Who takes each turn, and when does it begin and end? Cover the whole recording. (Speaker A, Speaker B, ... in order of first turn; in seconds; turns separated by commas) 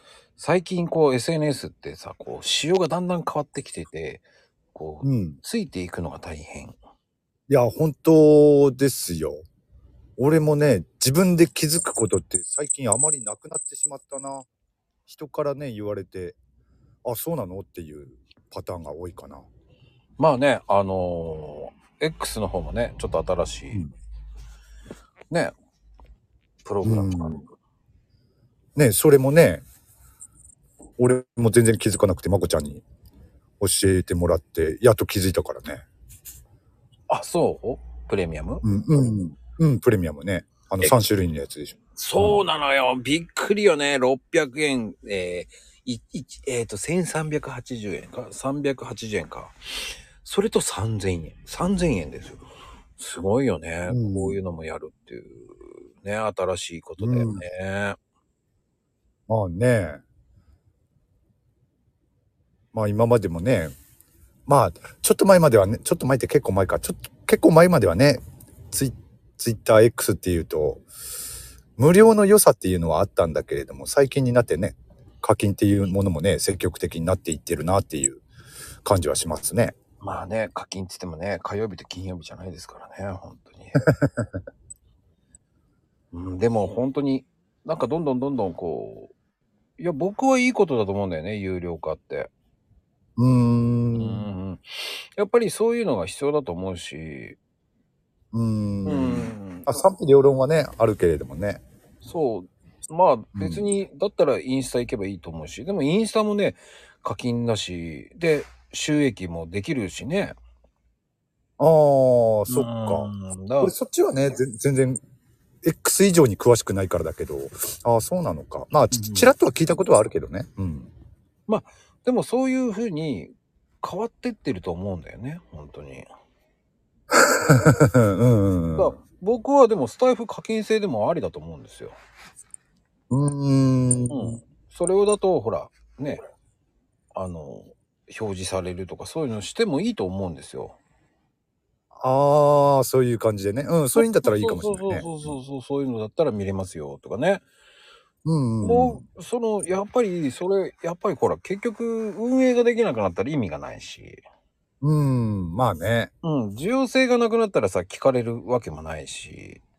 Speaker A: 0.4-6.8, Speaker B: 5.0-5.4, Speaker B: 7.5-9.4, Speaker B: 10.2-14.5, Speaker B: 15.1-16.4, Speaker B: 17.0-19.4, Speaker A: 20.2-23.8, Speaker A: 26.6-27.5, Speaker B: 26.8-27.4, Speaker B: 28.8-29.6, Speaker B: 31.0-32.8, Speaker B: 33.6-35.8, Speaker A: 37.1-38.6, Speaker B: 38.6-42.4, Speaker A: 42.0-52.4, Speaker A: 53.0-58.0, Speaker B: 53.9-54.4, Speaker B: 57.0-57.4, Speaker B: 59.3-60.0, Speaker B: 62.7-63.7, Speaker B: 64.5-70.8, Speaker B: 71.8-78.2, Speaker B: 78.8-79.7, Speaker A: 80.0-83.8, Speaker B: 83.9-84.4, Speaker A: 86.1-89.1, Speaker A: 89.8-92.3, Speaker B: 93.2-94.2, Speaker A: 93.9-97.4, Speaker B: 98.3-101.6, Speaker A: 98.8-99.7, Speaker A: 102.0-110.3, Speaker B: 103.3-103.7, Speaker B: 111.6-113.1, Speaker A: 112.5-113.7, Speaker B: 113.6-115.0, Speaker B: 115.6-120.9, Speaker A: 118.9-119.3, Speaker A: 121.5-126.0, Speaker B: 127.1-128.9, Speaker A: 128.8-131.9, Speaker B: 133.1-134.4, Speaker A: 134.1-136.2, Speaker A: 137.1-140.8, Speaker B: 141.9-145.3, Speaker A: 143.9-147.4, Speaker B: 148.2-149.0, Speaker A: 148.6-154.2, Speaker B: 154.8-156.1, Speaker A: 156.2-159.6